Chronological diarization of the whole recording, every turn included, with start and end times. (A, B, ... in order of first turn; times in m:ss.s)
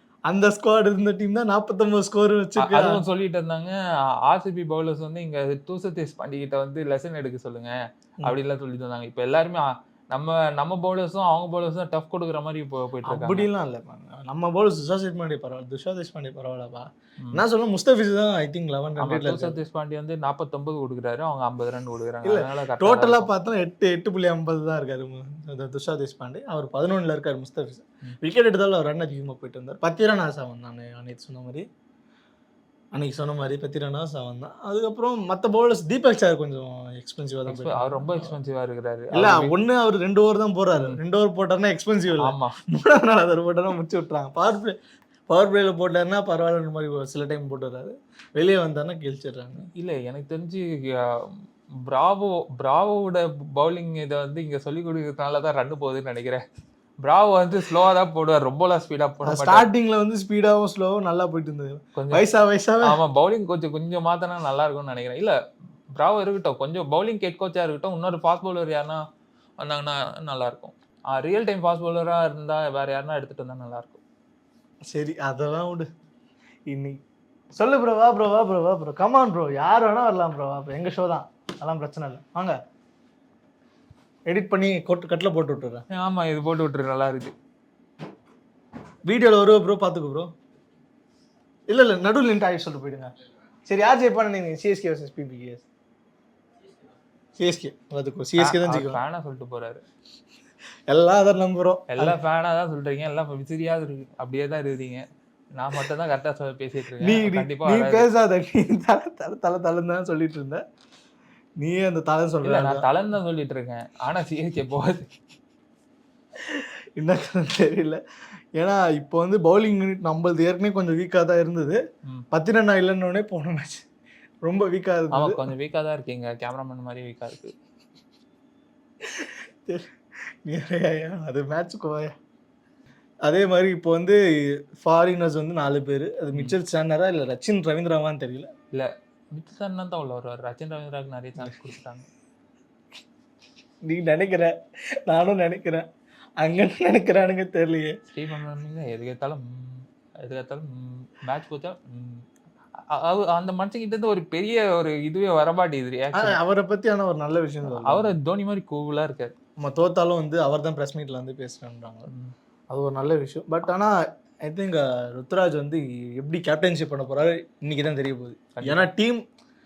0:00.3-0:03.0 A
0:02.6-0:13.5 B
0:13.1-0:19.6 A
0:19.0-0:23.3 B
0:22.2-0:31.6 A
0:32.9-0:38.4 A
0:37.5-0:39.5 B
0:39.1-0:44.8 A
0:42.2-0:42.6 B
0:45.3-0:49.7 A
0:49.7-0:56.4 B
0:57.0-0:59.6 B
0:59.2-1:03.0 A
1:02.0-1:02.2 B
1:02.8-1:05.3 B
1:05.9-1:09.0 B
1:09.6-1:14.0 B
1:14.9-1:15.8 A
1:16.7-1:17.0 A
1:17.6-1:22.6 A
1:24.3-1:25.8 A
1:25.9-1:27.3 B
1:29.1-1:30.3 A
1:31.7-1:33.1 A
1:33.6-1:35.6 A
1:37.4-1:39.0 A
1:38.4-1:39.8 B
1:40.9-1:42.2 A
1:41.9-1:48.1 B
1:47.0-1:50.6 A
1:51.6-1:52.9 A
1:52.4-1:55.2 B
1:56.4-1:58.0 A
1:58.6-2:01.8 A
2:02.3-2:03.8 A
2:04.4-2:05.4 A
2:05.1-2:07.5 B
2:09.0-2:09.9 A
2:10.4-2:12.1 A
2:13.2-2:18.5 A
2:18.7-2:22.1 B
2:23.8-2:24.5 A
2:25.1-2:25.8 A
2:26.4-2:28.0 A
2:28.1-2:32.3 B
2:32.8-2:36.4 B
2:36.1-2:38.1 A
2:37.7-2:39.3 B
2:39.6-2:42.1 A
2:42.1-2:42.3 B
2:42.7-2:43.9 A
2:44.4-2:49.2 A
2:48.5-2:48.9 B